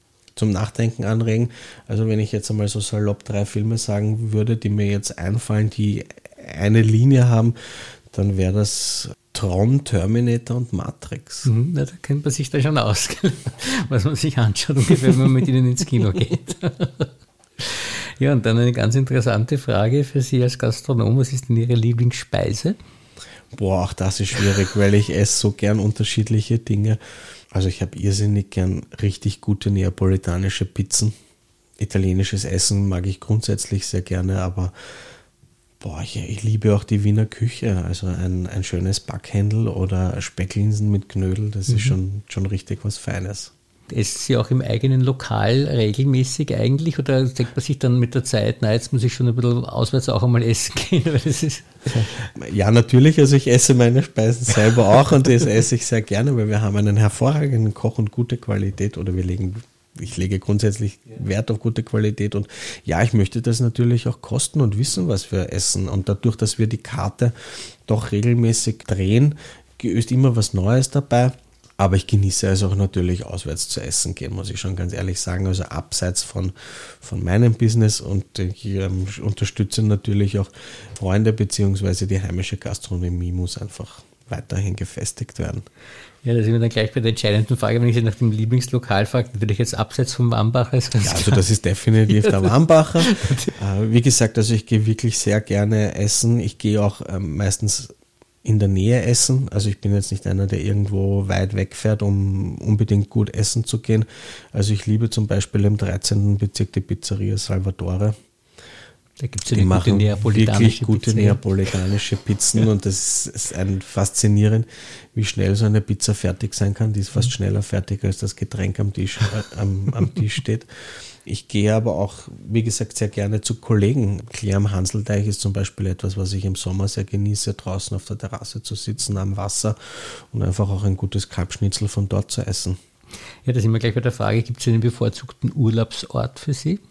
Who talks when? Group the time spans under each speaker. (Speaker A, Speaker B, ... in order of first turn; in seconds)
Speaker A: 0.4-11.5, 23.5-27.0, 27.5-31.1, 31.8-34.7, 35.8-43.5, 51.9-85.6, 91.0-97.9, 98.4-108.2, 109.5-132.8
Speaker B: 11.4-22.8, 41.7-42.0, 43.9-52.0, 86.2-91.5, 92.1-93.5, 109.2-111.4, 133.5-136.8